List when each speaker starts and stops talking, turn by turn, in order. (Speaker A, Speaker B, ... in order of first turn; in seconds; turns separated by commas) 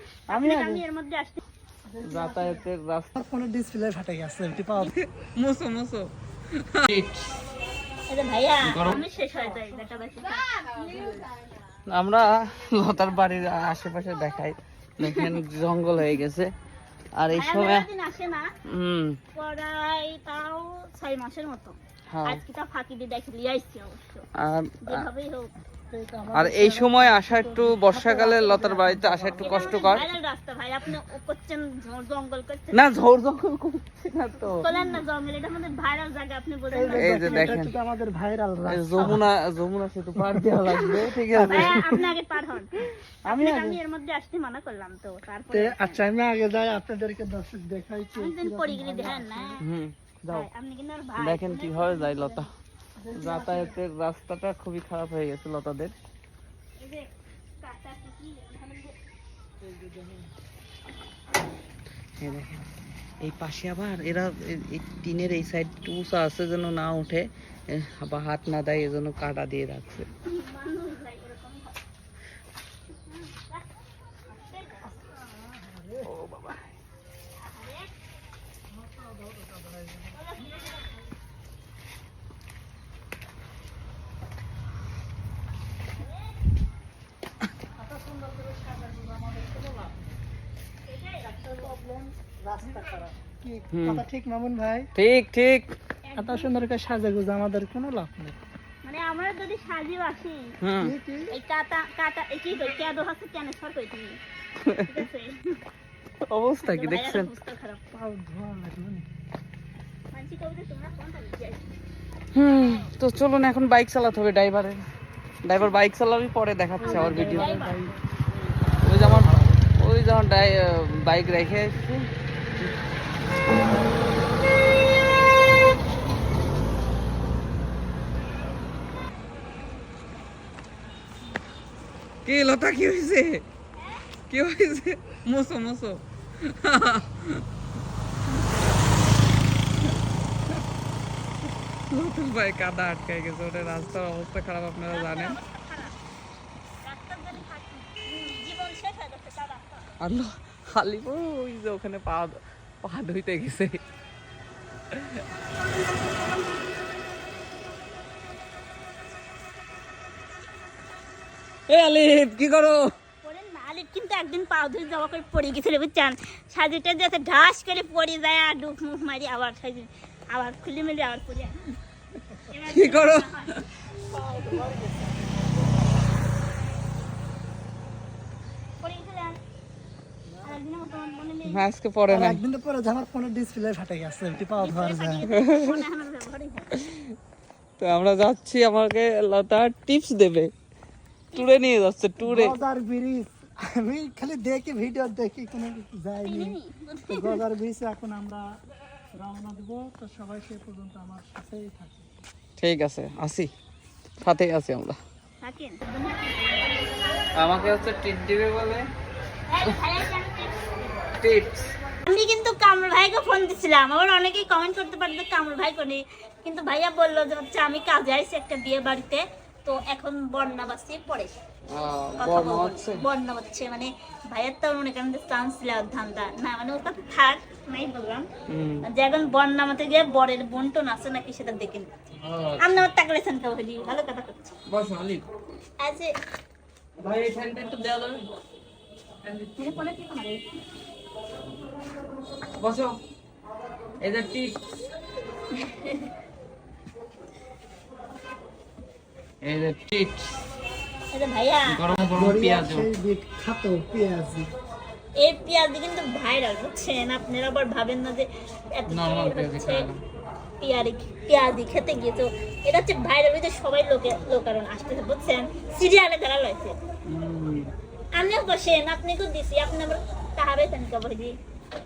Speaker A: 0.3-0.8, Speaker B: 0.3-1.4, Speaker C: 1.9-4.9, Speaker A: 2.0-3.2, Speaker A: 4.8-7.2, Speaker B: 8.1-10.8, Speaker A: 8.7-9.0, Speaker C: 10.8-11.2, Speaker A: 11.9-16.5, Speaker B: 15.0-15.3, Speaker A: 17.1-17.9, Speaker B: 17.3-18.5, Speaker A: 18.7-19.2, Speaker B: 19.3-24.3, Speaker A: 22.1-22.4, Speaker A: 24.4-25.1, Speaker B: 24.8-25.5, Speaker C: 25.9-30.0, Speaker A: 26.3-30.0, Speaker B: 29.4-32.9, Speaker A: 32.7-34.7, Speaker B: 34.6-37.6, Speaker C: 34.7-35.0, Speaker C: 36.7-39.2, Speaker A: 36.9-37.7, Speaker A: 38.6-42.0, Speaker B: 40.8-46.0, Speaker C: 41.3-42.1, Speaker A: 43.2-43.8, Speaker C: 45.5-49.6, Speaker B: 48.2-49.6, Speaker A: 49.6-50.5, Speaker B: 50.3-52.4, Speaker A: 51.2-52.5, Speaker C: 53.0-53.8, Speaker A: 53.1-55.9, Speaker B: 56.8-57.1, Speaker B: 57.6-59.0, Speaker C: 59.7-60.3, Speaker A: 62.2-62.7, Speaker A: 63.2-70.1, Speaker B: 70.2-71.8, Speaker B: 73.1-73.7, Speaker B: 74.3-75.0, Speaker C: 74.9-76.1, Speaker A: 76.0-76.7, Speaker B: 77.4-77.9, Speaker C: 78.7-80.9, Speaker B: 80.1-80.9, Speaker B: 85.9-86.3, Speaker C: 87.7-90.2, Speaker B: 90.8-91.4, Speaker C: 91.3-94.9, Speaker A: 93.7-94.0, Speaker A: 95.0-95.7, Speaker B: 96.0-96.5, Speaker C: 96.2-98.4, Speaker B: 98.8-100.5, Speaker A: 100.6-100.9, Speaker C: 100.8-101.3, Speaker B: 101.3-104.2, Speaker A: 104.6-105.0, Speaker B: 104.8-105.6, Speaker A: 106.2-107.3, Speaker B: 106.6-107.9, Speaker C: 107.9-109.1, Speaker B: 110.1-111.6, Speaker A: 112.3-114.8, Speaker B: 112.4-112.9, Speaker A: 115.4-117.5, Speaker C: 116.8-118.0, Speaker B: 116.8-117.9, Speaker A: 118.8-122.1, Speaker C: 119.0-119.4, Speaker A: 132.2-133.4, Speaker B: 133.8-134.0, Speaker A: 134.3-137.4, Speaker A: 141.9-145.4, Speaker B: 144.9-146.0, Speaker B: 146.8-150.0, Speaker A: 150.0-153.8, Speaker A: 154.9-155.2, Speaker A: 161.7-162.9, Speaker B: 163.2-171.8, Speaker B: 172.4-173.6, Speaker A: 172.7-173.3, Speaker C: 174.1-175.8, Speaker B: 178.8-179.4, Speaker B: 180.4-181.6, Speaker A: 181.4-182.4, Speaker C: 182.1-185.2, Speaker B: 184.6-186.8, Speaker A: 185.2-185.9, Speaker A: 186.7-187.1, Speaker A: 187.8-190.5, Speaker B: 191.3-191.6, Speaker A: 191.3-192.6, Speaker C: 192.2-196.6, Speaker B: 196.2-197.4, Speaker C: 197.1-198.4, Speaker C: 199.1-202.1, Speaker A: 202.6-203.5, Speaker A: 204.2-205.0, Speaker B: 205.4-206.9, Speaker A: 207.3-208.9, Speaker B: 209.5-211.1, Speaker A: 211.2-211.7, Speaker B: 212.1-221.3, Speaker A: 221.7-223.0, Speaker B: 222.2-228.3, Speaker A: 228.5-228.8, Speaker B: 228.8-231.9, Speaker A: 232.2-232.8, Speaker B: 232.6-234.6, Speaker A: 234.7-235.2, Speaker B: 235.8-236.1, Speaker A: 237.0-238.3, Speaker A: 239.3-239.6, Speaker B: 239.5-240.5, Speaker A: 242.6-243.0, Speaker A: 244.0-244.6, Speaker B: 245.6-246.1, Speaker A: 249.4-250.3, Speaker B: 251.1-251.8, Speaker A: 251.7-252.9, Speaker C: 252.1-254.5, Speaker B: 255.2-259.9, Speaker A: 258.9-260.0, Speaker B: 260.6-266.8, Speaker A: 267.1-267.7, Speaker B: 268.1-271.4